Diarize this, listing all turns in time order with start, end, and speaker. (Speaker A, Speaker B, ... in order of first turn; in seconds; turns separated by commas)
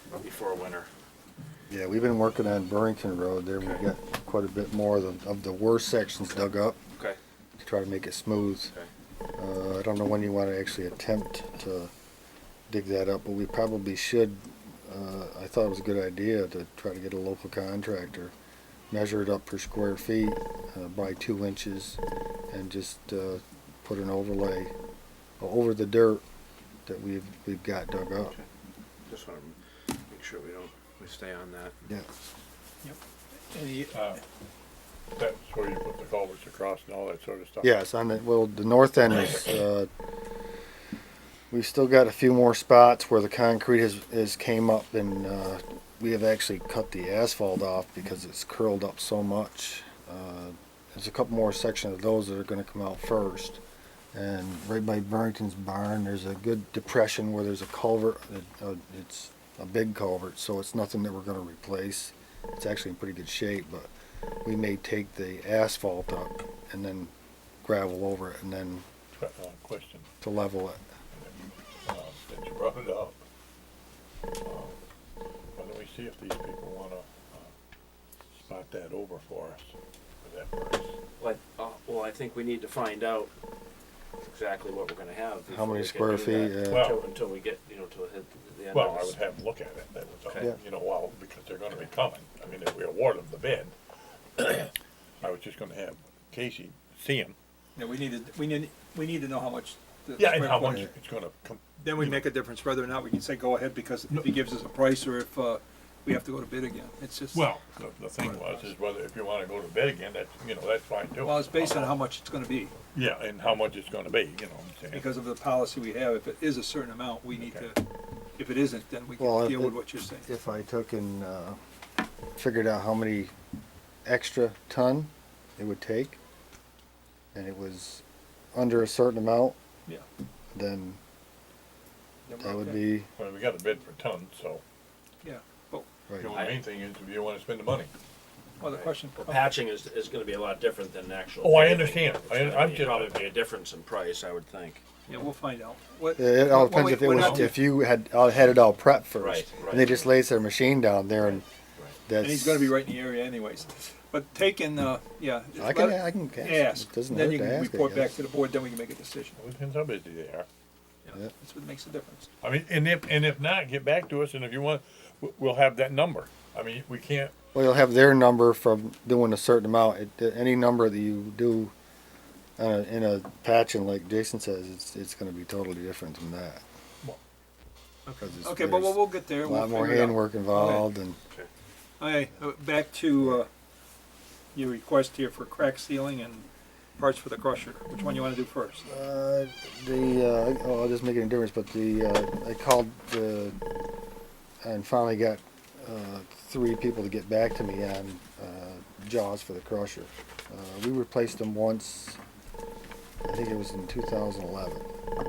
Speaker A: 0.1-0.9, Speaker B: 1.7-6.8, Speaker B: 7.6-8.7, Speaker B: 9.4-11.9, Speaker B: 12.7-18.3, Speaker B: 18.9-22.0, Speaker B: 22.5-24.7, Speaker B: 25.4-26.2, Speaker B: 26.9-28.4, Speaker A: 29.1-29.6, Speaker A: 30.1-31.8, Speaker C: 33.5-34.2, Speaker D: 33.9-34.2, Speaker D: 35.2-37.7, Speaker B: 37.6-39.9, Speaker B: 41.5-53.6, Speaker B: 54.1-63.9, Speaker B: 64.5-67.1, Speaker B: 67.6-68.9, Speaker D: 69.2-70.1, Speaker B: 70.2-70.8, Speaker D: 71.1-73.2, Speaker D: 74.4-74.8, Speaker D: 75.6-77.5, Speaker D: 78.3-80.9, Speaker A: 81.2-83.3, Speaker A: 84.2-89.2, Speaker B: 85.5-86.9, Speaker D: 86.7-87.0, Speaker D: 88.7-93.8, Speaker D: 94.4-97.4, Speaker C: 97.8-100.9, Speaker D: 100.2-102.3, Speaker C: 101.8-107.5, Speaker D: 107.3-112.0, Speaker C: 108.2-108.7, Speaker C: 111.2-112.8, Speaker D: 112.9-115.1, Speaker C: 114.9-117.8, Speaker D: 117.3-117.7, Speaker C: 118.4-120.3, Speaker B: 119.2-121.6, Speaker B: 122.4-123.3, Speaker B: 124.1-126.2, Speaker B: 127.3-128.0, Speaker B: 128.5-129.6, Speaker B: 130.5-131.0, Speaker C: 132.3-132.8, Speaker B: 132.4-133.1, Speaker D: 133.2-134.6, Speaker C: 135.2-135.9, Speaker B: 136.1-136.3, Speaker D: 136.2-137.9, Speaker A: 136.3-136.6, Speaker C: 138.6-139.6, Speaker A: 138.6-144.8, Speaker D: 141.4-143.3, Speaker C: 145.1-147.5, Speaker B: 146.2-151.4, Speaker D: 147.1-147.5, Speaker A: 149.2-150.1, Speaker A: 151.2-152.0, Speaker B: 152.1-152.7, Speaker C: 152.2-159.4, Speaker B: 155.6-158.1, Speaker D: 159.4-160.5, Speaker C: 161.0-162.3, Speaker D: 162.4-167.3, Speaker B: 167.5-171.7, Speaker B: 172.6-176.6, Speaker C: 178.1-180.9, Speaker B: 178.2-181.2, Speaker C: 182.0-183.5, Speaker C: 184.5-188.9, Speaker B: 188.9-193.6, Speaker B: 194.6-202.2, Speaker B: 203.3-204.9